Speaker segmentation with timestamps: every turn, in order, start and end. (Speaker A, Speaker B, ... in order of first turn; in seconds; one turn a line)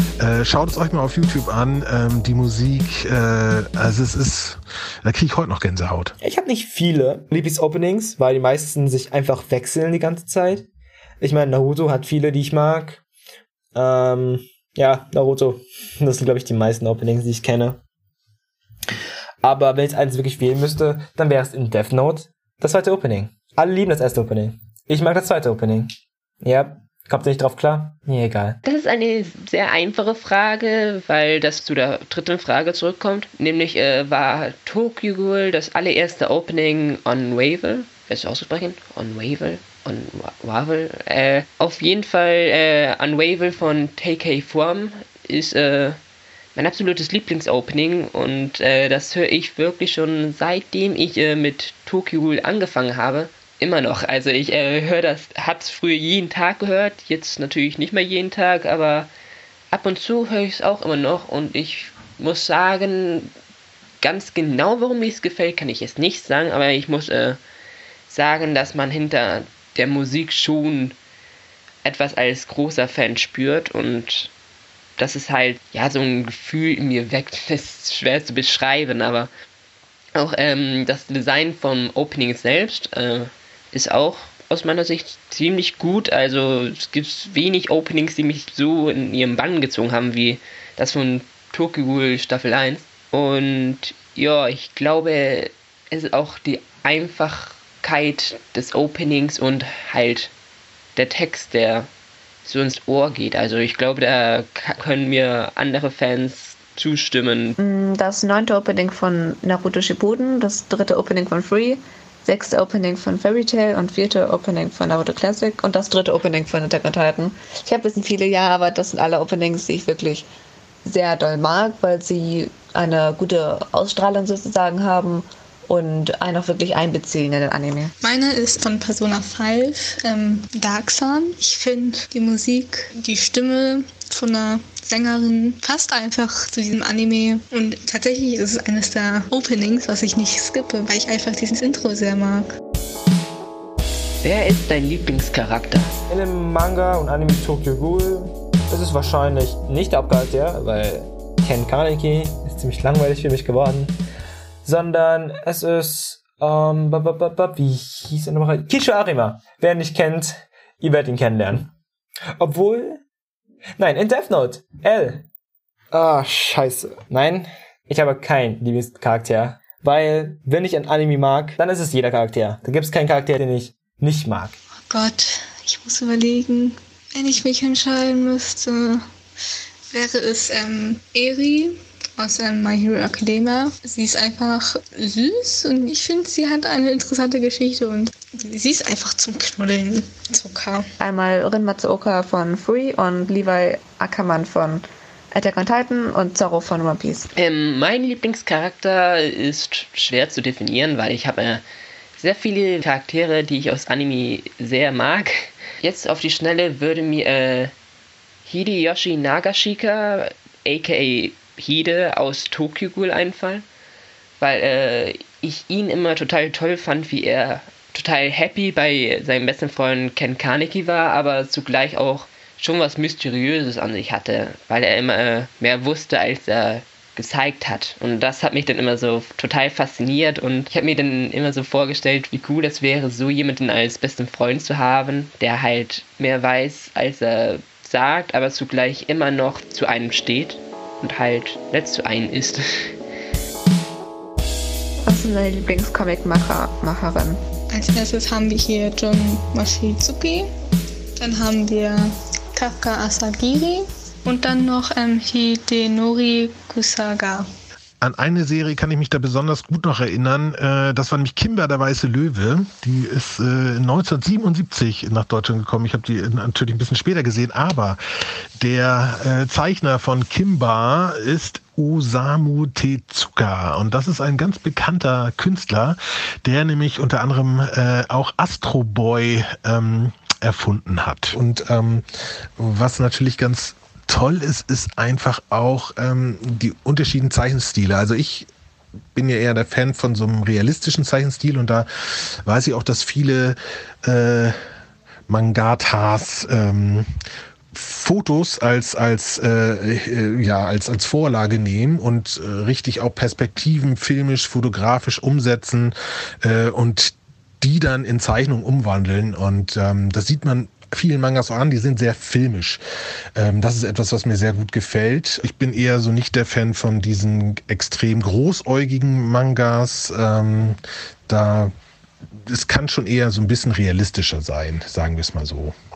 Speaker A: 0.2-6.1
Speaker B: 6.2-10.7
Speaker B: 11.2-13.0
Speaker B: 13.7-17.8
Speaker B: 19.4-28.6
Speaker C: 28.6-46.0
Speaker C: 46.5-59.1
Speaker C: 59.7-63.3
Speaker C: 64.0-67.4
Speaker C: 68.1-70.9
Speaker C: 71.8-74.3
Speaker C: 75.0-79.3
Speaker C: 80.1-100.3
Speaker C: 101.0-101.9
Speaker C: 102.4-107.6
Speaker D: 107.6-120.3
Speaker D: 120.8-127.9
Speaker E: 128.0-142.5
Speaker C: 144.2-145.9
Speaker B: 146.1-154.0
Speaker B: 154.6-161.7
Speaker B: 162.4-163.0
Speaker B: 163.8-165.2
Speaker B: 165.9-174.6
Speaker E: 174.9-179.0
Speaker E: 179.9-190.9
Speaker D: 191.0-197.3
Speaker C: 197.3-201.6
Speaker C: 202.2-207.7
Speaker C: 208.4-213.6
Speaker C: 214.4-242.9
Speaker D: 245.1-247.4
Speaker E: 247.7-250.5
Speaker E: 251.2-257.5
Speaker A: 258.0-268.0
Speaker A: 268.6-282.0
Speaker A: 282.6-288.5
Speaker A: 289.1-294.6
Speaker A: 295.3-297.1
Speaker A: 297.7-312.8
Speaker A: 313.4-321.7
Speaker A: 322.4-325.7